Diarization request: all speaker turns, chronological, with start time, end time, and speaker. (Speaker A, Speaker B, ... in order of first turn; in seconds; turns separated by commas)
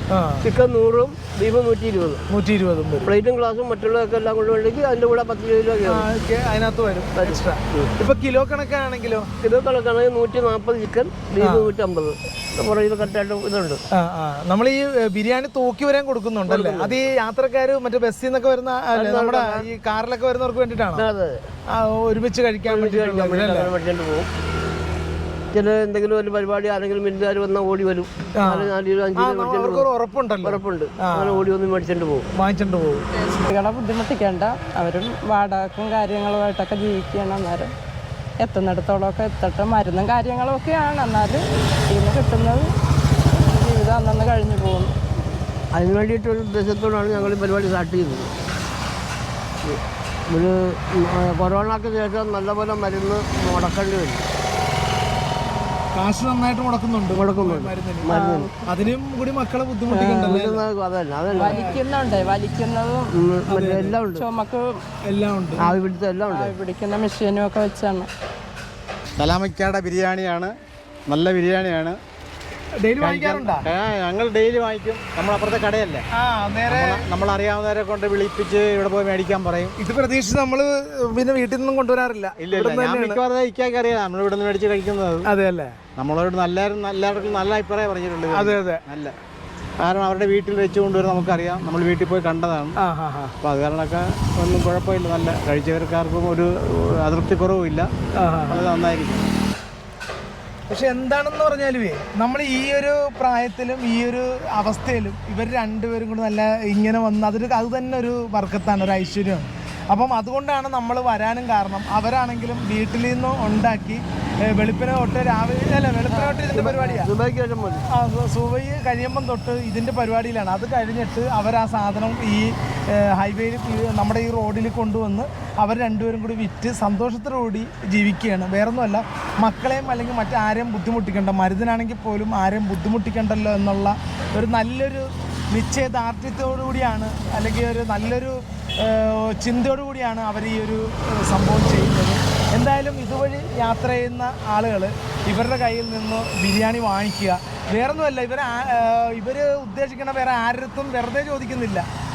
Speaker A: 0.1-0.5, Speaker B: 0.4-2.2, Speaker A: 2.3-3.1, Speaker B: 3.0-6.1, Speaker A: 5.8-9.3, Speaker B: 7.2-7.9, Speaker B: 9.4-13.8, Speaker A: 11.4-11.7, Speaker A: 13.9-21.1, Speaker B: 16.5-17.0, Speaker B: 18.9-19.7, Speaker B: 20.9-21.4, Speaker A: 21.7-23.7, Speaker B: 22.7-24.3, Speaker B: 25.5-29.9, Speaker A: 28.4-31.5, Speaker B: 30.4-32.3, Speaker A: 32.4-33.1, Speaker C: 33.3-37.7, Speaker C: 38.4-42.7, Speaker C: 43.3-44.9, Speaker B: 45.7-48.3, Speaker B: 49.6-54.3, Speaker A: 55.9-60.7, Speaker B: 57.1-58.5, Speaker C: 58.1-58.5, Speaker C: 59.9-60.4, Speaker B: 60.2-61.8, Speaker C: 61.3-63.1, Speaker A: 61.5-61.8, Speaker B: 63.1-64.2, Speaker A: 63.5-64.0, Speaker C: 64.1-64.7, Speaker A: 65.0-65.6, Speaker B: 65.6-66.5, Speaker C: 66.3-68.1, Speaker D: 69.2-70.5, Speaker D: 71.1-72.0, Speaker A: 72.8-73.7, Speaker D: 73.0-76.0, Speaker A: 76.2-77.0, Speaker D: 76.7-79.8, Speaker A: 79.8-83.2, Speaker D: 82.4-85.2, Speaker A: 85.3-85.8, Speaker D: 86.0-89.1, Speaker A: 88.3-88.8, Speaker D: 89.8-92.7, Speaker A: 92.8-93.3, Speaker D: 93.4-97.9, Speaker A: 98.2-98.7, Speaker D: 98.5-99.3, Speaker A: 100.7-117.1, Speaker C: 116.1-116.5, Speaker B: 116.5-117.8, Speaker A: 117.9-151.9